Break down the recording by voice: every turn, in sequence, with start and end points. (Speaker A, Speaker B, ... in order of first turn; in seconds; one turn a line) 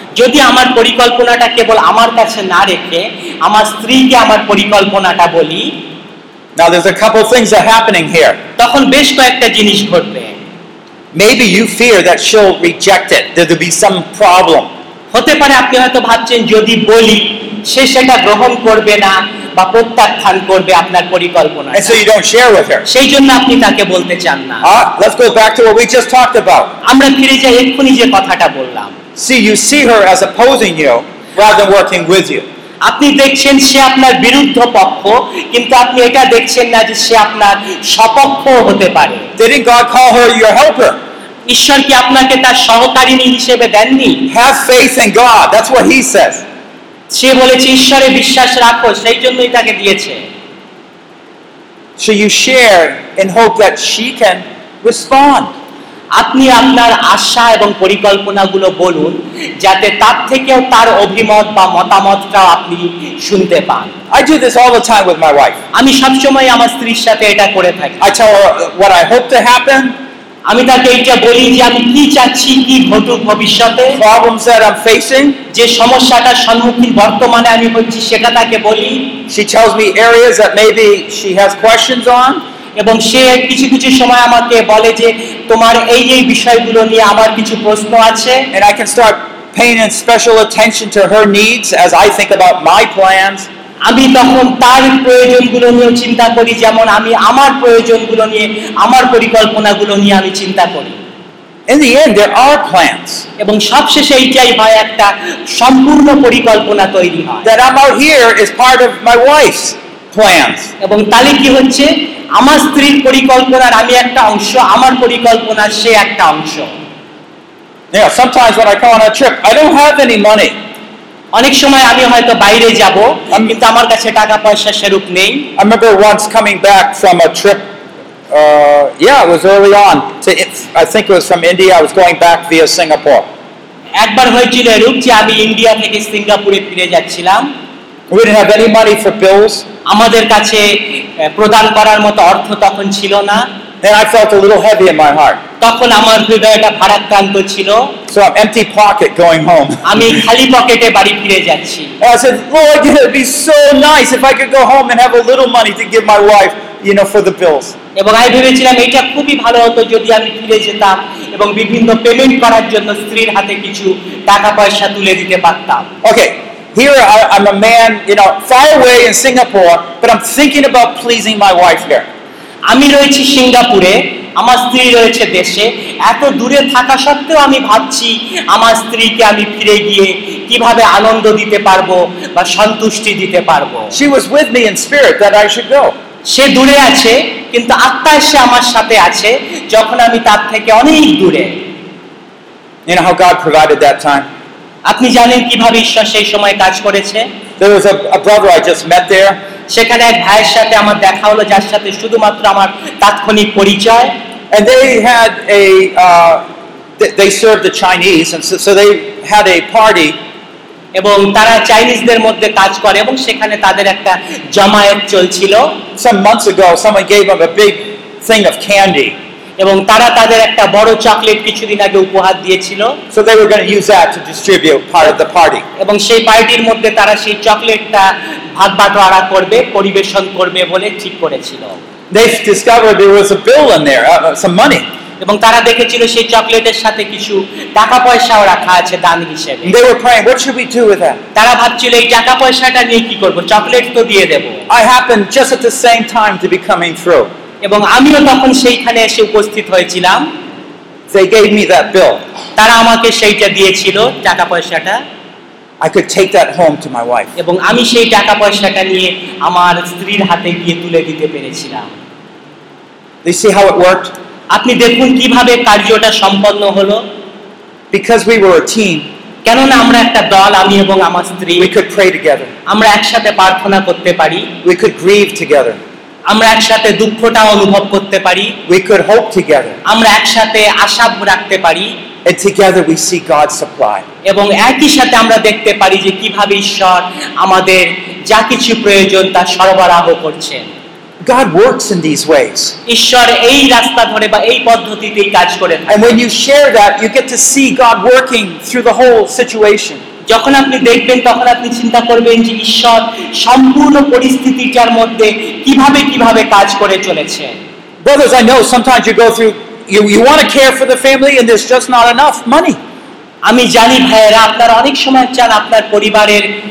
Speaker A: 0.1-5.8
Speaker B: 6.5-8.4
Speaker A: 8.6-10.4
Speaker B: 11.1-14.7
Speaker A: 15.1-22.0
Speaker B: 21.7-22.9
Speaker A: 22.9-24.6
Speaker B: 24.6-26.8
Speaker A: 26.8-28.9
Speaker B: 29.1-32.4
Speaker A: 32.8-39.3
Speaker B: 39.4-41.0
Speaker A: 41.5-44.3
Speaker B: 44.3-46.4
Speaker A: 47.1-50.2
Speaker B: 52.0-55.5
Speaker A: 56.1-64.0
Speaker B: 64.1-65.6
Speaker A: 65.7-68.1
Speaker B: 68.0-69.9
Speaker A: 70.5-74.0
Speaker B: 73.9-75.4
Speaker A: 75.5-79.2
Speaker B: 79.3-82.4
Speaker A: 82.8-88.5
Speaker B: 88.5-93.5
Speaker A: 93.8-101.0
Speaker B: 101.7-103.2
Speaker A: 103.4-107.5
Speaker B: 107.4-110.7
Speaker A: 110.8-116.7
Speaker B: 117.9-120.5
Speaker A: 121.3-125.5
Speaker B: 125.5-127.7
Speaker B: 128.3-133.3
Speaker A: 133.9-137.5
Speaker B: 138.1-139.6
Speaker A: 139.8-143.5
Speaker B: 143.8-145.4
Speaker A: 145.6-147.9
Speaker B: 148.1-150.2
Speaker A: 149.8-151.9
Speaker B: 152.0-157.8
Speaker A: 157.9-165.9
Speaker B: 166.0-172.1
Speaker A: 172.7-183.9
Speaker B: 183.9-185.9
Speaker A: 186.3-191.6
Speaker B: 192.9-194.3
Speaker A: 194.8-197.3
Speaker B: 197.6-199.4
Speaker A: 199.7-204.1
Speaker B: 204.5-206.4
Speaker B: 207.0-210.2
Speaker A: 210.9-215.8
Speaker B: 216.0-219.1
Speaker A: 219.6-223.0
Speaker B: 223.1-225.6
Speaker A: 225.8-231.8
Speaker B: 232.1-234.8
Speaker A: 235.2-239.7
Speaker B: 239.6-241.2
Speaker A: 241.3-244.7
Speaker B: 244.7-247.3
Speaker A: 247.6-250.3
Speaker B: 251.1-252.2
Speaker A: 252.6-255.0
Speaker B: 255.8-257.3
Speaker A: 257.4-261.9
Speaker B: 263.2-264.1
Speaker A: 264.5-267.0
Speaker B: 267.9-269.1
Speaker A: 269.4-271.7
Speaker B: 271.6-272.5
Speaker A: 272.7-274.5
Speaker B: 274.6-275.8
Speaker A: 276.3-278.6
Speaker B: 278.6-279.8
Speaker A: 279.8-281.9
Speaker B: 282.2-284.0
Speaker A: 284.2-290.7
Speaker B: 291.2-292.8
Speaker A: 292.9-296.2
Speaker B: 295.9-300.0
Speaker A: 300.3-307.6
Speaker B: 308.0-312.8
Speaker A: 313.4-316.5